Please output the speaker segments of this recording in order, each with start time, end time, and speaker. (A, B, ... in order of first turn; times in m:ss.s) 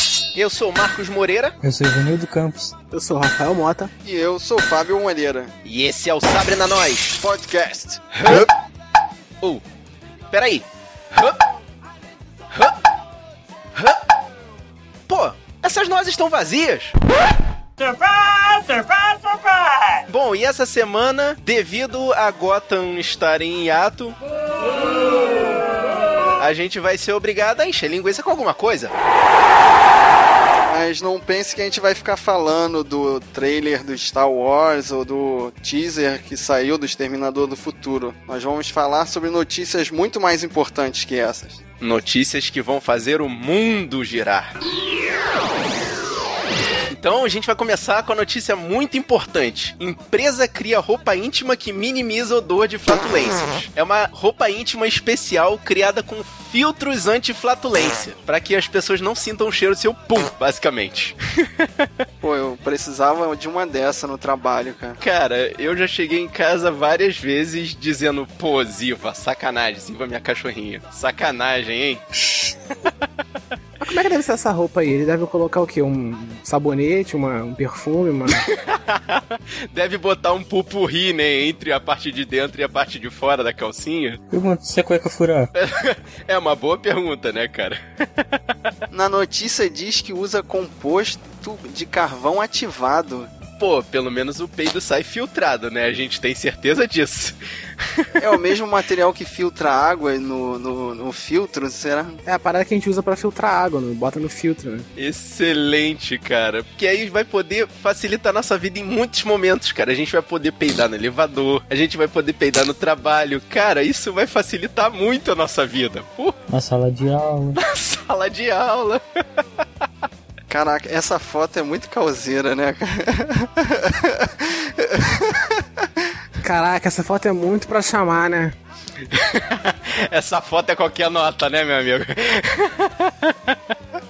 0:00.4-0:01.6 A
0:01.6-0:02.7 B
0:02.9-0:03.9 C
0:04.0-0:05.5 D
0:05.6-0:07.2 A
0:07.2-0:08.5 D
0:08.1-0:08.5 A
0:10.3-0:11.4 A
0:12.5-0:12.8 A
0:13.8-0:14.0 A
0:15.1-0:17.0 A
0:17.8-0:20.0 E
0:20.1-0:24.2 A
0:26.4-0:28.9 A
0:30.6-0:41.6 D
0:41.8-0:44.5 A
0:46.9-1:01.9 A
1:02.2-1:05.0 D
1:05.0-1:12.2 A
1:13.8-1:18.5 C
1:18.3-1:24.2 A
1:24.3-1:25.5 B
1:25.6-1:28.2 A
1:28.9-1:33.3 D
1:33.6-1:38.3 A
1:38.2-1:42.2 D
1:42.3-1:44.9 C
1:45.0-1:56.4 A
1:56.5-1:57.6 B
1:57.6-1:59.0 A
2:00.5-2:06.1 D
2:06.4-2:08.6 C
2:09.1-2:13.6 A